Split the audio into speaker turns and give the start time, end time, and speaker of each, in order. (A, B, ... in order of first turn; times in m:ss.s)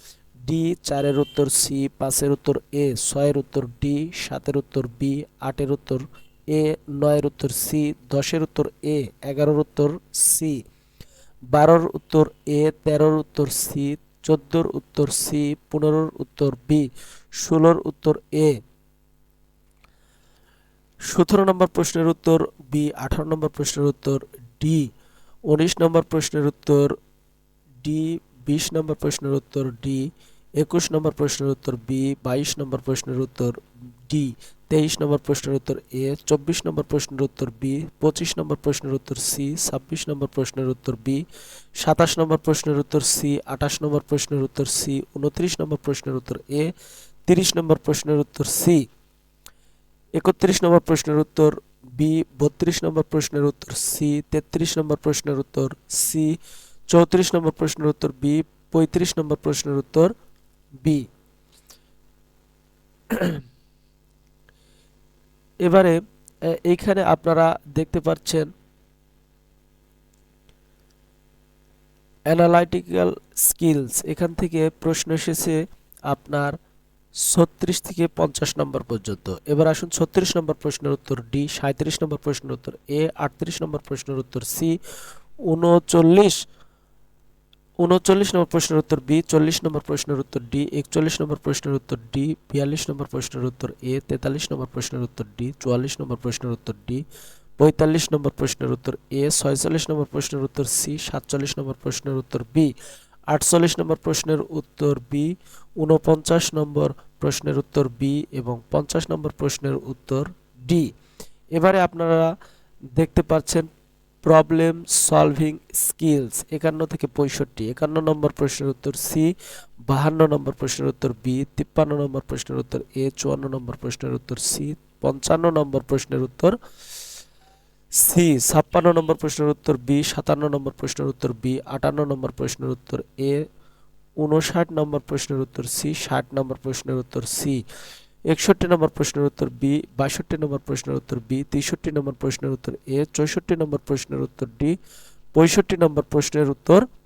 0:00.5-0:10.6 A
0:11.5-0:16.9 A
0:17.4-0:18.5 A
0:21.1-0:24.9 A
0:25.5-0:26.9 A
0:27.8-0:41.2 A
0:41.8-0:46.7 A
0:47.3-0:48.8 A
0:50.2-0:56.3 A
0:56.9-1:00.1 A
1:00.8-1:01.0 A
1:03.1-1:03.4 A
1:05.6-1:06.0 A
1:06.5-1:08.5 A
1:12.3-1:15.6 A
1:16.1-1:16.5 A
1:17.2-1:24.7 A
1:25.5-1:26.4 A
1:27.8-1:37.0 A
1:37.6-1:42.7 A
1:43.3-1:50.9 A
1:51.5-1:52.3 A
1:53.0-1:53.6 A
1:54.2-1:59.3 A
1:59.9-2:06.5 A
2:08.0-2:13.4 A
2:14.2-2:17.6 A
2:18.3-2:24.7 A
2:25.4-2:26.8 A